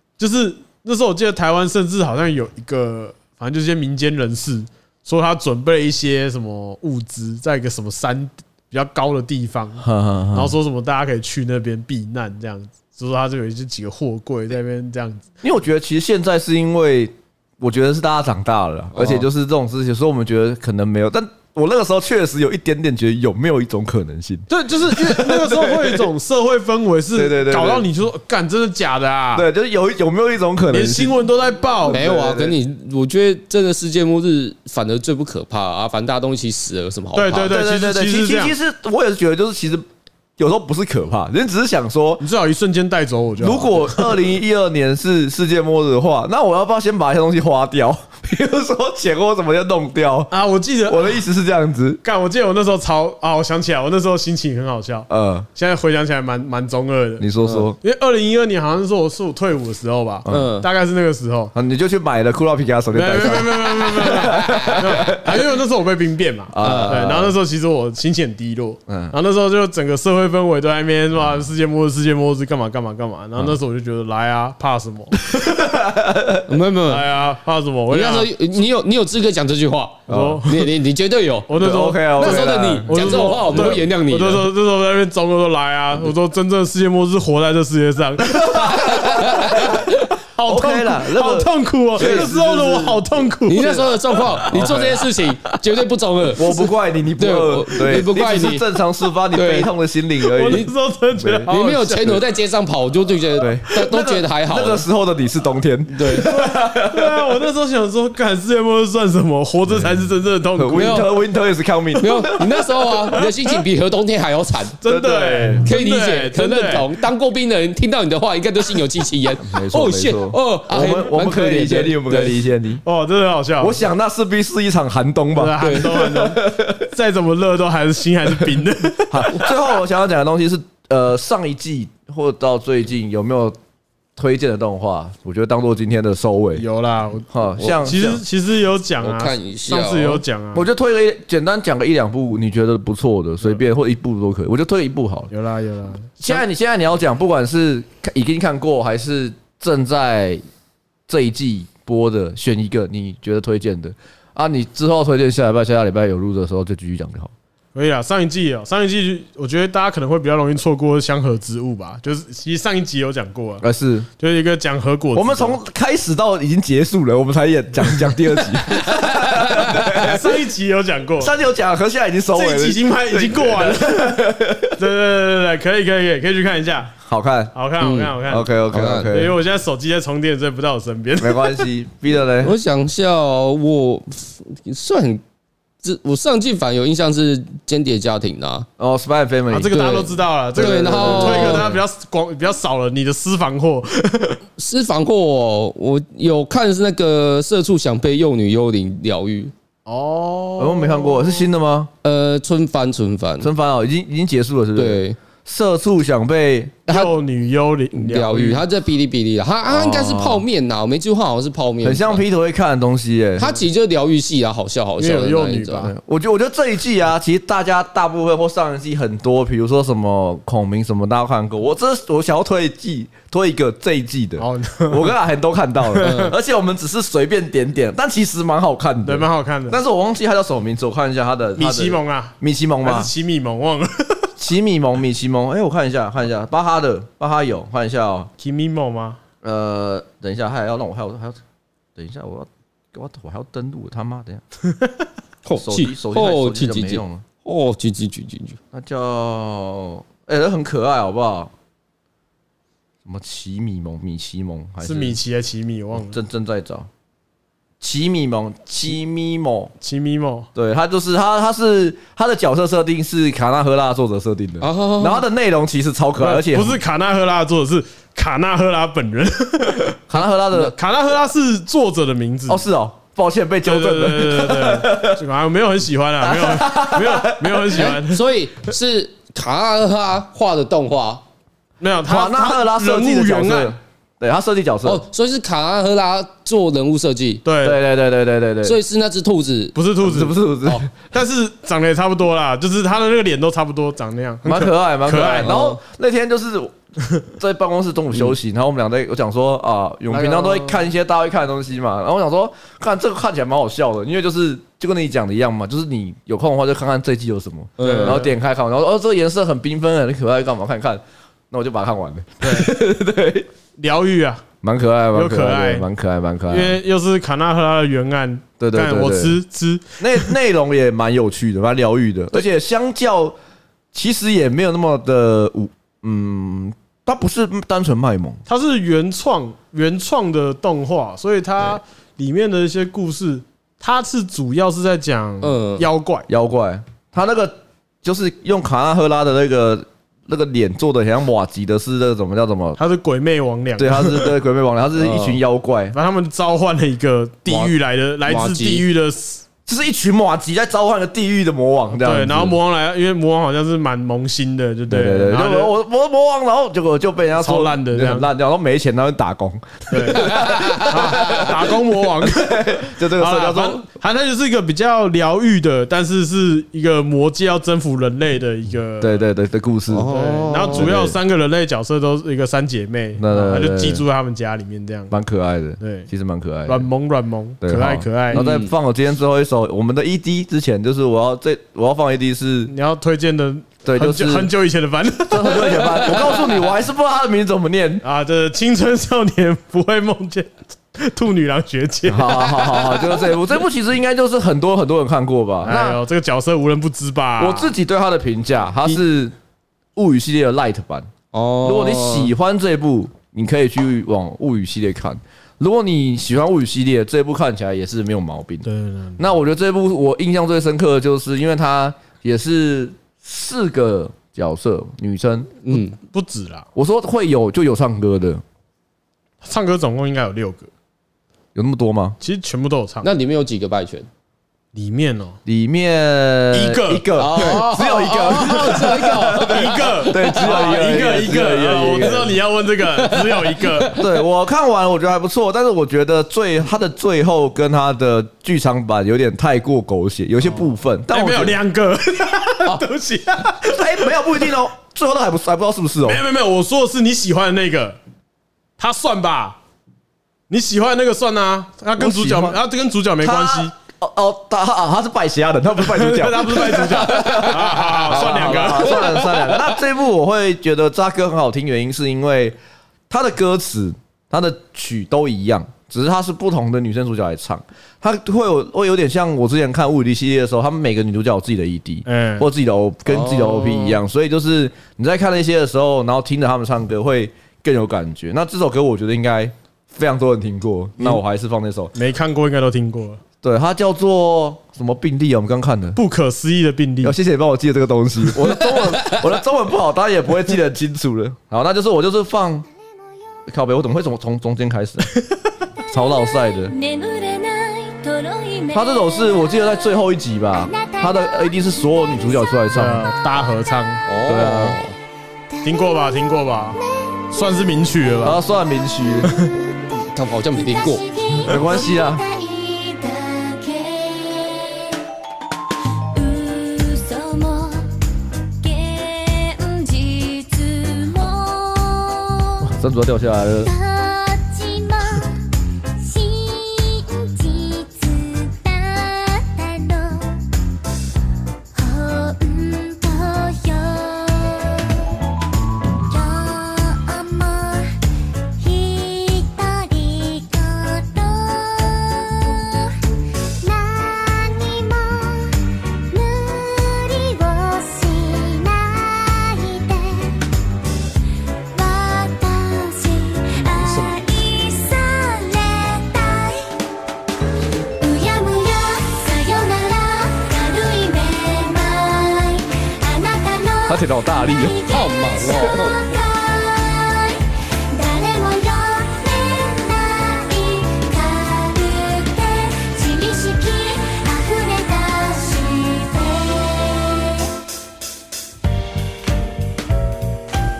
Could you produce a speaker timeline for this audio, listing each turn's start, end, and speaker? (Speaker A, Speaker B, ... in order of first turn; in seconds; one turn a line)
Speaker A: 0.2-15.3
Speaker B: 9.8-10.6
Speaker B: 15.4-26.1
Speaker C: 19.0-19.2
Speaker A: 24.5-29.4
Speaker B: 27.1-27.9
Speaker B: 29.3-31.2
Speaker A: 30.7-32.5
Speaker C: 31.9-37.5
Speaker A: 37.1-38.5
Speaker B: 37.3-39.8
Speaker B: 40.4-42.2
Speaker A: 42.2-44.2
Speaker B: 43.4-50.3
Speaker A: 50.3-51.2
Speaker B: 50.9-52.0
Speaker A: 52.0-57.3
Speaker B: 55.1-55.5
Speaker B: 57.2-57.8
Speaker A: 57.8-61.5
Speaker B: 60.2-60.5
Speaker C: 60.3-60.7
Speaker B: 61.5-65.3
Speaker A: 62.9-75.7
Speaker C: 64.2-64.9
Speaker B: 66.5-67.3
Speaker C: 66.6-67.0
Speaker B: 68.9-69.1
Speaker B: 75.3-76.5
Speaker C: 76.5-77.1
Speaker A: 76.9-78.3
Speaker C: 77.9-81.5
Speaker B: 80.1-80.4
Speaker A: 80.1-80.6
Speaker A: 81.5-94.6
Speaker B: 81.6-83.8
Speaker C: 82.2-84.5
Speaker B: 88.2-93.0
Speaker C: 88.8-90.0
Speaker C: 92.0-92.3
Speaker C: 93.5-98.7
Speaker B: 94.5-95.0
Speaker B: 96.3-101.5
Speaker C: 99.3-99.7
Speaker A: 100.3-102.2
Speaker C: 100.4-100.7
Speaker C: 101.5-104.8
Speaker B: 103.4-107.3
Speaker C: 105.9-106.3
Speaker A: 106.0-111.0
Speaker B: 110.5-112.5
Speaker C: 110.8-111.1
Speaker C: 112.0-114.8
Speaker A: 113.0-113.6
Speaker A: 114.8-116.9
Speaker B: 114.8-115.7
Speaker C: 115.7-122.4
Speaker B: 119.4-122.8
Speaker A: 122.8-123.8
Speaker B: 123.6-126.8
Speaker A: 125.3-129.3
Speaker C: 125.6-125.9
Speaker B: 129.1-133.6
Speaker B: 134.2-136.6
Speaker A: 136.6-140.7
Speaker B: 137.3-138.2
Speaker C: 139.0-140.2
Speaker B: 140.5-145.3
Speaker A: 145.3-146.4
Speaker B: 146.2-150.4
Speaker B: 151.1-157.3
Speaker A: 157.7-163.6
Speaker B: 163.6-164.1
Speaker A: 164.2-165.6
Speaker B: 165.1-170.3
Speaker C: 169.5-169.9
Speaker A: 169.9-171.3
Speaker B: 171.2-174.8
Speaker A: 172.3-176.9
Speaker B: 177.0-177.5
Speaker A: 177.5-178.5
Speaker C: 177.8-179.1
Speaker B: 178.2-179.3
Speaker A: 179.1-181.6
Speaker B: 181.2-182.6
Speaker C: 182.4-185.2
Speaker C: 185.8-188.7
Speaker B: 188.8-189.8
Speaker A: 189.5-194.4
Speaker C: 189.7-191.8
Speaker B: 190.6-191.7
Speaker C: 194.6-199.5
Speaker A: 199.8-201.4
Speaker B: 200.6-201.9
Speaker C: 202.0-203.5
Speaker B: 203.4-207.0
Speaker C: 204.8-205.2
Speaker A: 206.9-208.6
Speaker C: 207.9-212.2
Speaker B: 209.7-210.4
Speaker B: 211.8-213.6
Speaker C: 213.4-215.9
Speaker A: 215.0-215.9
Speaker B: 215.8-233.1
Speaker A: 224.4-225.1
Speaker A: 225.9-226.3
Speaker C: 226.0-226.3
Speaker A: 229.0-229.8
Speaker A: 231.6-234.3
Speaker B: 234.4-238.3
Speaker A: 238.4-239.2
Speaker B: 239.4-241.4
Speaker B: 241.9-244.4
Speaker C: 245.4-248.6
Speaker B: 245.6-247.2
Speaker B: 248.7-251.5
Speaker B: 253.0-255.2
Speaker A: 254.8-256.2
Speaker B: 256.0-256.9
Speaker B: 257.8-259.7
Speaker A: 259.8-260.5
Speaker B: 260.5-266.8
Speaker C: 264.6-265.2
Speaker A: 266.2-270.0
Speaker B: 270.1-270.7
Speaker A: 270.5-272.6
Speaker B: 272.5-275.2
Speaker A: 273.6-278.2
Speaker B: 276.2-277.9
Speaker C: 277.8-281.2
Speaker A: 281.8-283.7
Speaker B: 282.0-285.0
Speaker C: 284.8-287.4
Speaker A: 287.4-287.8
Speaker B: 287.6-288.8
Speaker C: 288.6-289.8
Speaker A: 289.7-290.4
Speaker B: 290.0-290.9
Speaker A: 291.0-295.5
Speaker B: 294.4-296.7
Speaker C: 295.4-295.8
Speaker B: 297.3-313.5
Speaker A: 300.1-300.8
Speaker C: 307.8-308.2
Speaker A: 307.8-308.3
Speaker A: 312.4-312.7
Speaker A: 313.8-314.4
Speaker B: 314.6-316.8
Speaker A: 315.1-315.9
Speaker A: 316.5-320.3
Speaker B: 318.6-319.4
Speaker B: 320.0-323.4
Speaker B: 323.9-328.4
Speaker A: 328.5-336.3
Speaker C: 335.4-335.9
Speaker B: 336.3-342.8
Speaker A: 342.8-344.3
Speaker B: 343.8-345.9
Speaker C: 345.0-345.4
Speaker A: 345.9-349.4
Speaker B: 347.5-347.7
Speaker C: 348.3-348.8
Speaker B: 349.7-352.5
Speaker A: 351.9-355.7
Speaker B: 354.9-363.8
Speaker A: 357.4-358.3
Speaker A: 359.9-369.2
Speaker C: 360.3-361.3
Speaker B: 369.0-371.2
Speaker C: 369.9-370.9
Speaker A: 370.1-375.1
Speaker B: 373.2-374.0
Speaker B: 375.1-376.9
Speaker A: 375.8-376.1
Speaker A: 376.6-378.4
Speaker B: 377.6-382.7
Speaker C: 378.3-378.7
Speaker A: 382.7-386.5
Speaker B: 383.8-384.5
Speaker B: 385.3-388.0
Speaker A: 388.0-393.0
Speaker B: 392.1-396.0
Speaker A: 395.6-397.7
Speaker B: 397.4-399.3
Speaker B: 399.9-401.1
Speaker C: 401.3-402.3
Speaker B: 401.6-408.6
Speaker A: 408.6-409.2
Speaker B: 409.2-415.5
Speaker C: 415.6-415.9
Speaker A: 415.7-416.6
Speaker B: 416.7-418.4
Speaker A: 419.4-420.7
Speaker B: 421.5-422.2
Speaker A: 422.2-423.1
Speaker C: 423.0-424.1
Speaker A: 424.7-425.4
Speaker B: 425.4-432.4
Speaker A: 426.5-427.7
Speaker C: 427.2-431.1
Speaker A: 428.2-433.9
Speaker C: 433.0-434.1
Speaker B: 433.9-441.6
Speaker A: 441.1-444.2
Speaker B: 443.6-446.2
Speaker A: 446.0-448.0
Speaker A: 448.8-449.6
Speaker A: 450.5-453.7
Speaker B: 452.0-452.6
Speaker B: 453.2-462.6
Speaker A: 455.8-459.2
Speaker C: 457.1-457.5
Speaker C: 458.1-459.8
Speaker B: 463.1-481.9
Speaker A: 472.1-472.4
Speaker C: 473.1-473.8
Speaker A: 481.9-483.2
Speaker B: 483.4-486.0
Speaker A: 485.9-487.1
Speaker B: 487.0-492.6
Speaker C: 488.7-489.2
Speaker B: 493.5-495.1
Speaker B: 495.9-496.7
Speaker D: 496.0-499.4
Speaker B: 498.7-503.1
Speaker D: 500.6-502.6
Speaker A: 502.7-504.1
Speaker C: 504.1-504.9
Speaker B: 504.3-504.8
Speaker D: 505.5-506.2
Speaker A: 505.6-506.8
Speaker D: 506.8-507.7
Speaker A: 507.3-508.4
Speaker B: 508.2-509.3
Speaker A: 509.2-509.5
Speaker D: 509.6-510.0
Speaker C: 509.9-511.0
Speaker D: 510.5-514.9
Speaker B: 511.4-512.2
Speaker D: 516.1-517.9
Speaker D: 518.6-522.7
Speaker B: 522.6-523.7
Speaker D: 523.6-525.4
Speaker D: 526.0-530.4
Speaker D: 531.7-534.9
Speaker D: 536.1-537.9
Speaker D: 538.6-543.0
Speaker D: 543.6-545.6
Speaker D: 546.1-550.4
Speaker D: 551.7-556.8
Speaker D: 558.0-577.5
Speaker B: 563.9-564.8
Speaker C: 564.9-566.0